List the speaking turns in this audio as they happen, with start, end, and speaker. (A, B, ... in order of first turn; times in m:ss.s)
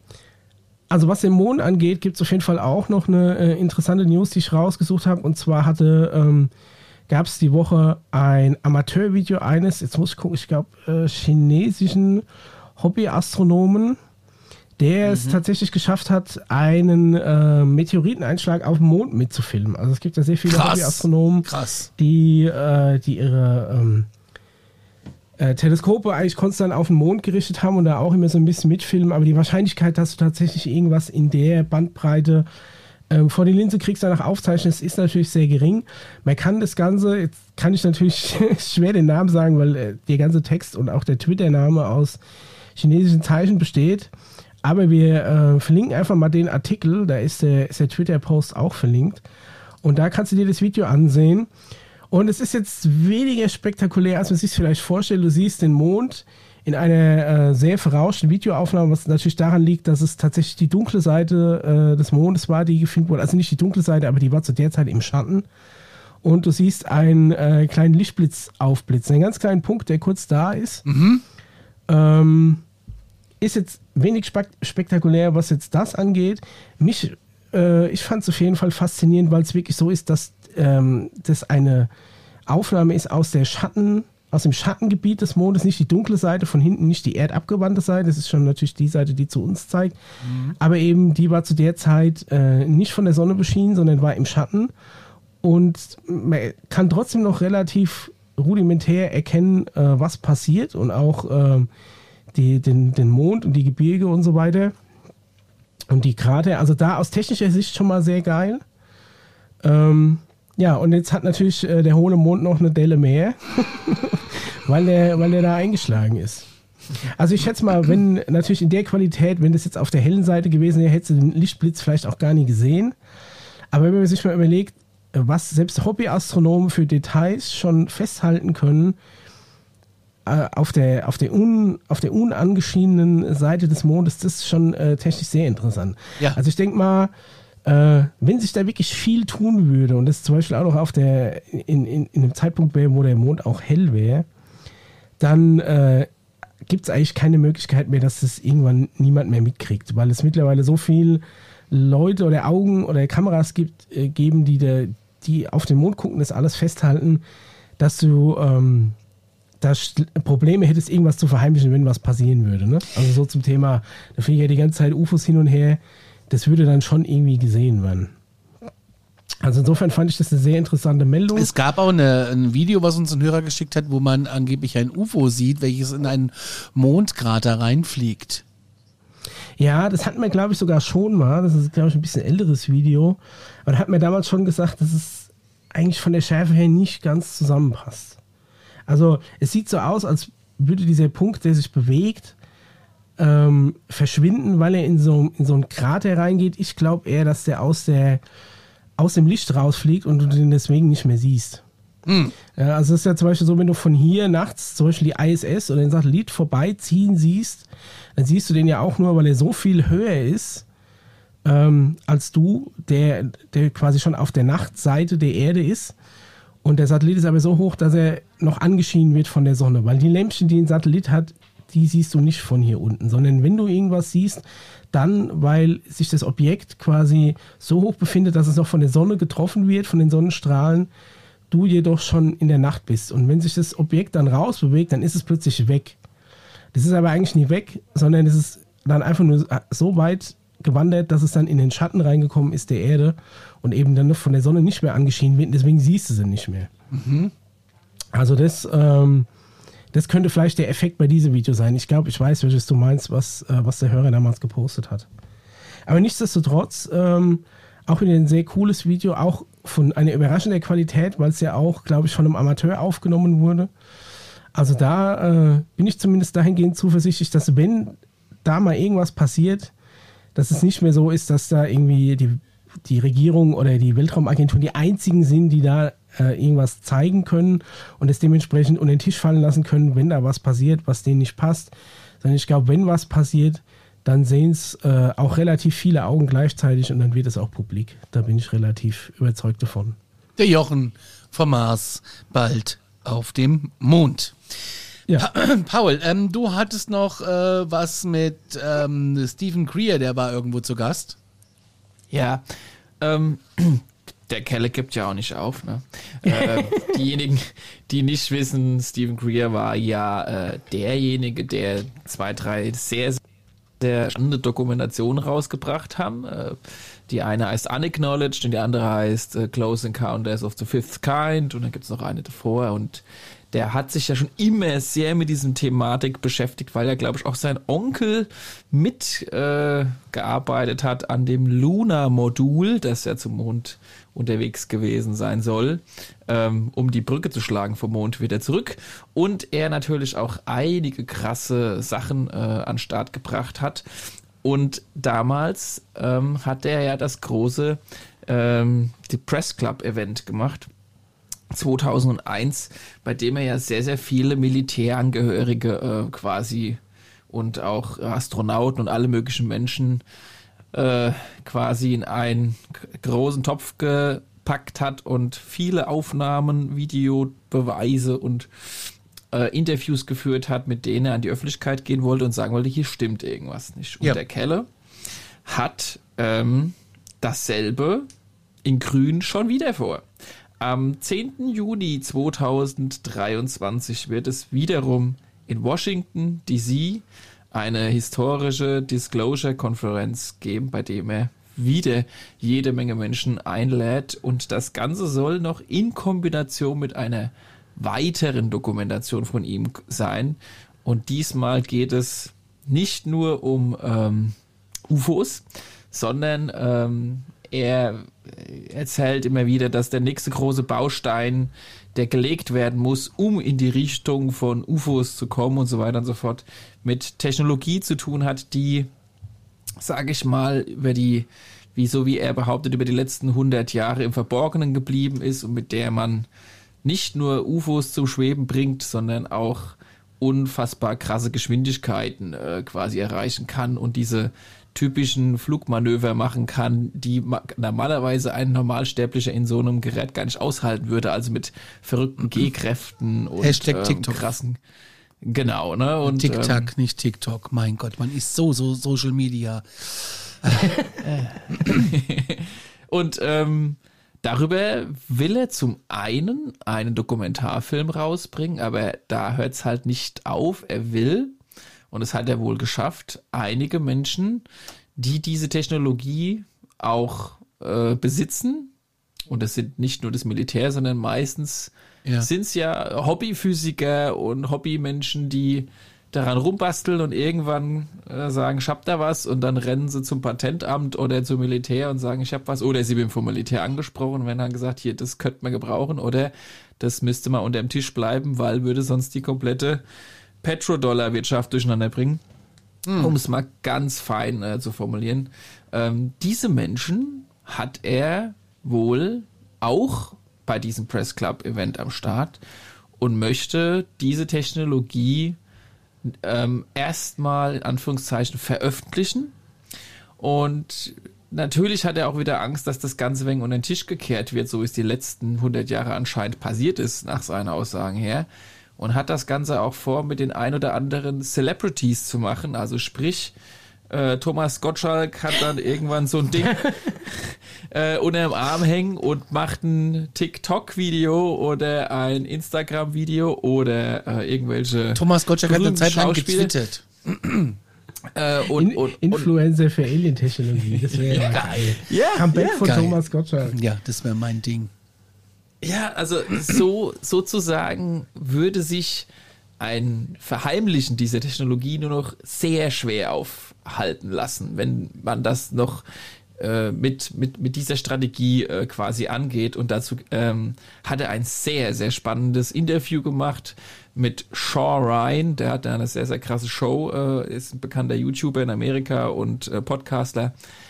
0:00.9-0:06.5 A
0:07.1-0:12.2 A
0:12.8-0:14.0 A
0:14.8-0:24.1 A
0:15.0-0:15.4 B
0:20.4-0:21.9 B
0:25.4-0:32.4 A
0:33.1-0:42.2 A
0:42.8-0:44.1 A
0:44.6-0:49.2 A
0:49.8-0:51.5 A
0:52.1-1:05.5 A
1:06.2-1:10.8 A
1:10.8-1:11.2 B
1:11.9-1:12.6 A
1:13.4-1:21.9 A
1:22.5-1:30.0 A
1:30.2-1:30.5 B
1:30.6-1:34.7 A
1:35.4-1:41.7 A
1:42.3-1:44.7 A
1:45.9-1:48.6 A
1:49.6-1:56.5 A
1:57.0-2:02.9 A
2:03.7-2:09.0 A
2:10.2-2:17.1 A
2:17.6-2:24.3 A
2:25.2-2:26.1 A
2:26.6-2:37.2 A
2:37.8-2:39.0 A
2:39.6-2:48.1 A
2:49.4-2:51.5 A
2:51.3-2:58.4 B
2:59.6-3:08.2 A
3:08.9-3:12.4 A
3:13.2-3:18.2 A
3:19.0-3:21.6 A
3:22.0-3:22.3 B
3:22.5-3:30.6 A
3:31.4-3:35.9 A
3:36.6-3:50.9 A
3:51.5-3:56.0 A
3:56.7-4:06.7 A
4:06.9-4:07.3 B
4:08.1-4:09.3 A
4:09.9-4:15.1 A
4:15.9-4:23.7 A
4:24.5-4:29.7 A
4:30.3-4:50.0 A
4:50.4-4:54.3 B
4:55.1-5:01.2 B
5:02.1-5:02.4 C
5:03.0-5:13.2 C
5:06.2-5:07.0 A
5:13.8-5:43.8 C
5:44.4-5:50.7 C
5:51.5-6:00.0 C
6:00.7-6:14.7 C
6:15.4-6:18.1 C
6:18.6-6:20.0 C
6:20.6-6:44.4 C
6:44.9-6:58.9 C
6:59.8-7:06.3 C
7:06.8-7:24.6 C
7:23.4-7:24.3 B
7:25.2-7:26.7 C
7:26.0-7:30.7 B
7:31.0-7:41.3 C
7:41.9-7:44.4 C
7:45.0-7:48.7 C
7:49.3-8:09.8 C
8:10.4-8:12.2 C
8:12.9-8:13.1 B
8:13.0-8:22.4 C
8:23.0-8:25.4 C
8:26.0-8:29.3 C
8:30.2-8:38.3 C
8:38.8-8:43.3 C
8:43.9-8:56.5 C
8:54.9-8:57.6 B
8:58.1-8:59.3 C
8:58.5-9:03.6 A
9:00.8-9:02.8 C
9:01.1-9:01.7 B
9:02.6-9:04.7 B
9:05.6-9:09.1 C
9:09.6-9:15.8 C
9:16.4-9:30.3 C